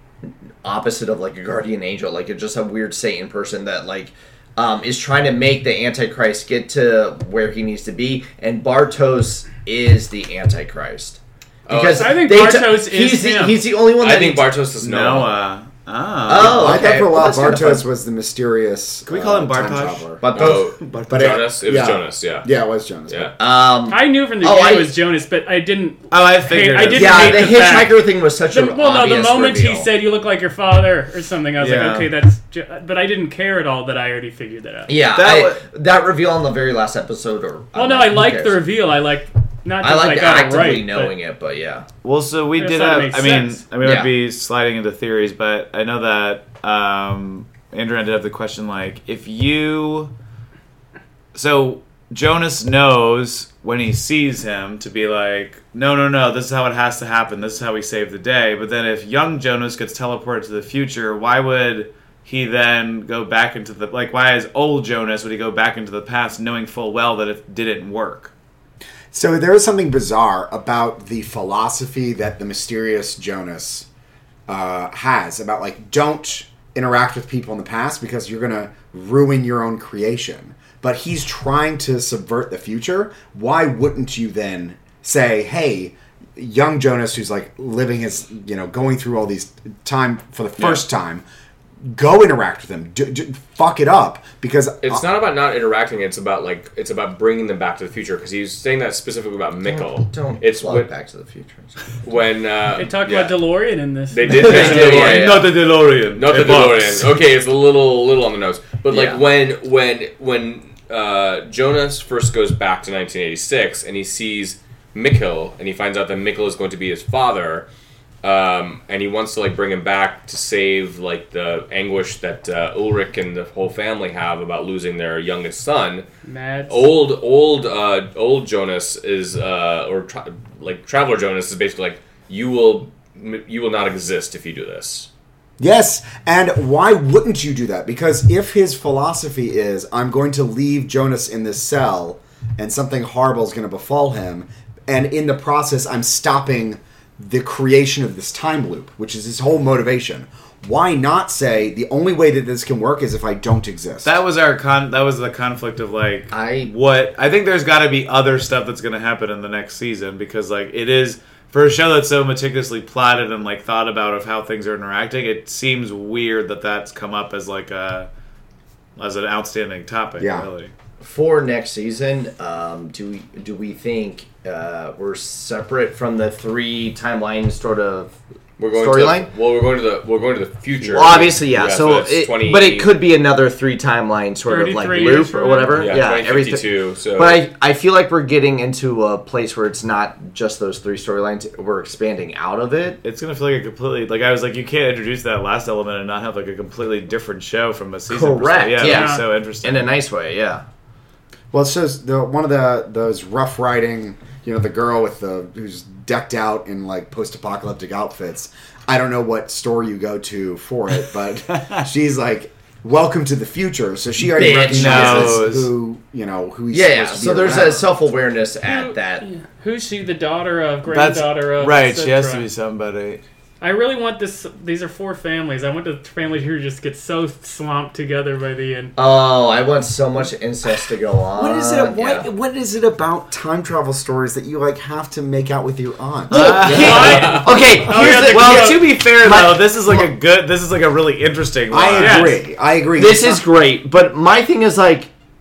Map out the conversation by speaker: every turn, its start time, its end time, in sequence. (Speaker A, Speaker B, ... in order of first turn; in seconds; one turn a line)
Speaker A: 0.6-14.5
Speaker B: 11.7-12.2
Speaker C: 11.9-13.6
Speaker B: 14.0-15.3
Speaker D: 14.8-16.9
Speaker A: 16.3-17.8
Speaker E: 16.3-23.3
Speaker D: 19.1-21.4
Speaker A: 20.2-20.6
Speaker B: 20.3-22.5
Speaker B: 23.1-23.3
Speaker A: 23.4-25.0
Speaker C: 23.9-34.9
Speaker D: 26.1-27.6
Speaker A: 26.9-29.9
Speaker D: 31.6-32.1
Speaker A: 34.9-38.6
Speaker D: 35.1-35.6
Speaker C: 37.7-41.1
Speaker A: 39.8-41.9
Speaker D: 42.0-50.1
Speaker C: 42.5-43.7
Speaker A: 43.8-44.1
Speaker D: 51.3-68.3
Speaker E: 69.1-73.8
Speaker E: 74.5-91.2
Speaker E: 91.8-95.0
Speaker B: 94.8-100.9
Speaker A: 99.6-101.8
Speaker B: 102.0-103.3
Speaker C: 102.7-105.3
Speaker B: 104.1-105.5
Speaker A: 104.3-105.4
Speaker D: 104.5-107.1
Speaker B: 106.1-117.7
Speaker A: 108.9-109.2
Speaker B: 118.2-126.0
Speaker C: 126.2-126.8
Speaker B: 126.7-135.1
Speaker E: 135.6-154.2
Speaker D: 154.0-168.1
Speaker A: 156.3-156.7
Speaker D: 169.0-170.7
Speaker E: 170.2-170.5
Speaker A: 171.0-178.1
Speaker B: 178.6-183.0
Speaker A: 178.7-179.3
Speaker A: 180.8-193.0
Speaker C: 184.4-186.1
Speaker B: 185.6-187.4
Speaker D: 193.0-199.9
Speaker A: 198.1-200.6
Speaker C: 198.8-199.3
Speaker E: 201.5-217.9
Speaker D: 211.5-211.8
Speaker A: 214.3-215.5
Speaker D: 214.6-215.7
Speaker A: 216.7-219.2
Speaker C: 218.6-222.4
Speaker D: 220.9-223.2
Speaker C: 223.6-228.9
Speaker A: 228.9-232.3
Speaker E: 231.3-236.7
Speaker D: 236.3-242.3
Speaker A: 236.3-240.1
Speaker C: 236.5-238.9
Speaker B: 236.9-237.4
Speaker E: 241.7-243.4
Speaker C: 242.0-242.4
Speaker A: 242.9-245.1